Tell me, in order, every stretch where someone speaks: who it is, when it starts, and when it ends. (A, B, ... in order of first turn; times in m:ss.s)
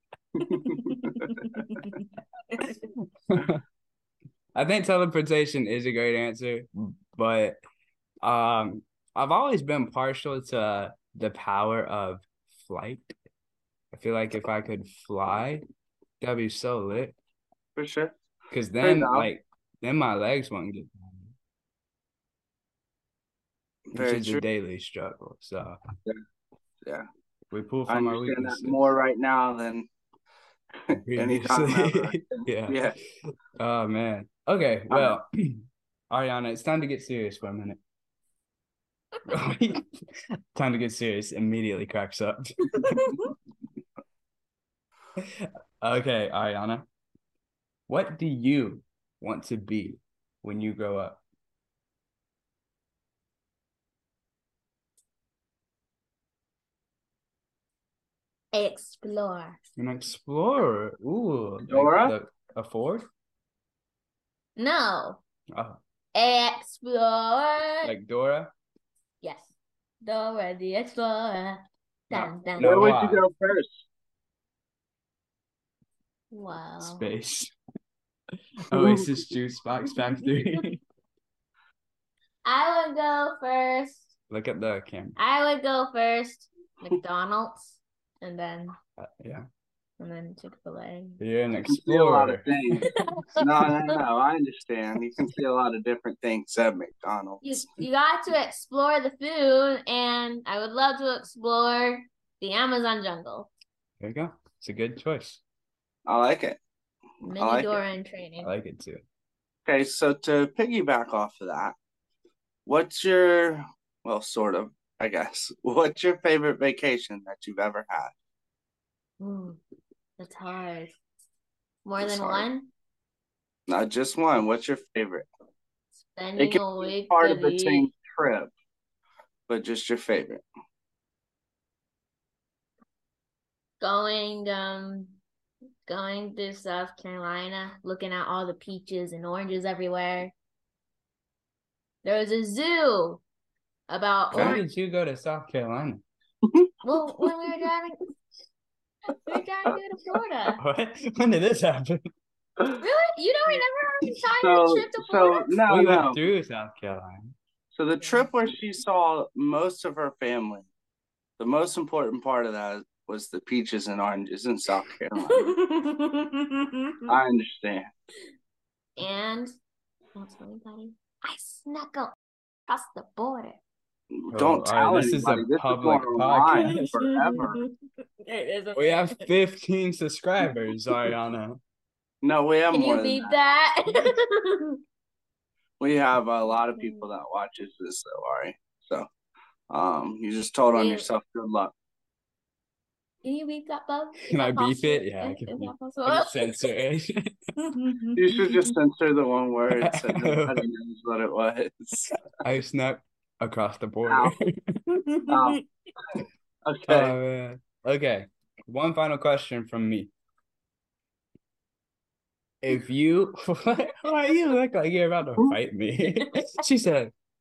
0:00.4-0:00.7 A
0:00.7-0:02.0 B
0:03.3-0:03.6 C
0:04.5-0:07.6 C
0:08.2-0:13.1 C
0:13.9-0:15.6 C
0:16.2-0:17.1 C
0:17.8-0:18.1 A
0:18.5-0:21.3 C
0:18.8-0:19.3 A
0:23.9-0:24.4 A
0:23.9-0:25.8 C
0:27.5-0:28.9 C
0:27.9-0:29.9 A
0:30.8-0:33.0 A
0:30.9-0:32.8 C
0:33.6-0:37.8 C
0:34.9-0:35.2 A
0:39.3-0:39.9 C
0:40.5-0:43.0 C
0:45.8-0:46.8 C
0:47.9-0:51.2 C
0:58.5-0:59.6 B
0:59.8-1:03.0 C
1:01.6-1:02.1 A
1:04.6-1:05.2 B
1:05.5-1:05.8 C
1:06.1-1:07.9 B
1:07.8-1:08.5 C
1:09.2-1:12.9 B
1:12.1-1:13.2 C
1:12.6-1:13.8 A
1:16.3-1:17.0 B
1:16.8-1:17.5 C
1:18.7-1:20.8 C
1:20.2-1:20.6 B
1:22.4-1:24.1 B
1:24.3-1:25.2 C
1:25.2-1:28.8 B
1:29.0-1:29.4 C
1:30.0-1:31.2 B
1:31.2-1:32.4 C
1:31.7-1:37.6 A
1:32.8-1:34.0 B
1:37.4-1:43.5 B
1:44.0-1:45.4 C
1:46.0-1:46.6 A
1:47.2-1:48.5 B
1:47.3-1:47.8 A
1:48.4-1:49.0 C
1:49.6-1:51.7 A
1:52.6-1:58.1 A
1:59.2-1:59.6 B
2:00.2-2:01.0 B
2:01.8-2:02.7 B
2:02.0-2:02.5 A
2:03.7-2:05.3 A
2:06.1-2:07.9 B
2:06.4-2:08.5 A
2:09.5-2:10.4 A
2:13.8-2:15.2 B
2:15.8-2:20.3 B
2:22.0-2:23.2 B
2:23.9-2:24.6 B
2:24.3-2:24.6 A
2:24.3-2:26.0 C
2:26.8-2:28.0 B
2:29.1-2:30.6 B
2:30.6-2:32.0 C
2:32.8-2:35.6 B
2:34.4-2:36.2 A
2:35.7-2:37.3 C
2:37.7-2:40.7 A
2:38.0-2:38.3 B
2:41.4-2:45.5 A
2:45.3-2:47.1 B
2:47.1-2:47.9 A
2:49.0-2:49.5 B
2:50.1-2:52.1 B
2:52.7-2:53.6 B
2:54.2-2:57.6 A
2:54.3-2:56.9 C
2:56.8-2:57.7 B
2:58.2-2:59.3 B
2:58.7-3:01.6 C
3:02.2-3:03.4 A
3:02.7-3:04.8 B
3:05.8-3:09.1 A
3:06.4-3:07.0 B
3:09.7-3:11.7 A
3:10.7-3:11.1 B
3:13.2-3:16.6 B
3:14.3-3:17.3 C
3:17.6-3:18.7 B
3:18.2-3:22.2 A
3:19.8-3:20.6 C
3:22.4-3:24.5 C
3:24.1-3:24.3 A
3:24.9-3:25.6 B
3:25.3-3:25.6 A
3:26.6-3:27.1 A
3:26.9-3:30.1 C
3:32.6-3:37.1 C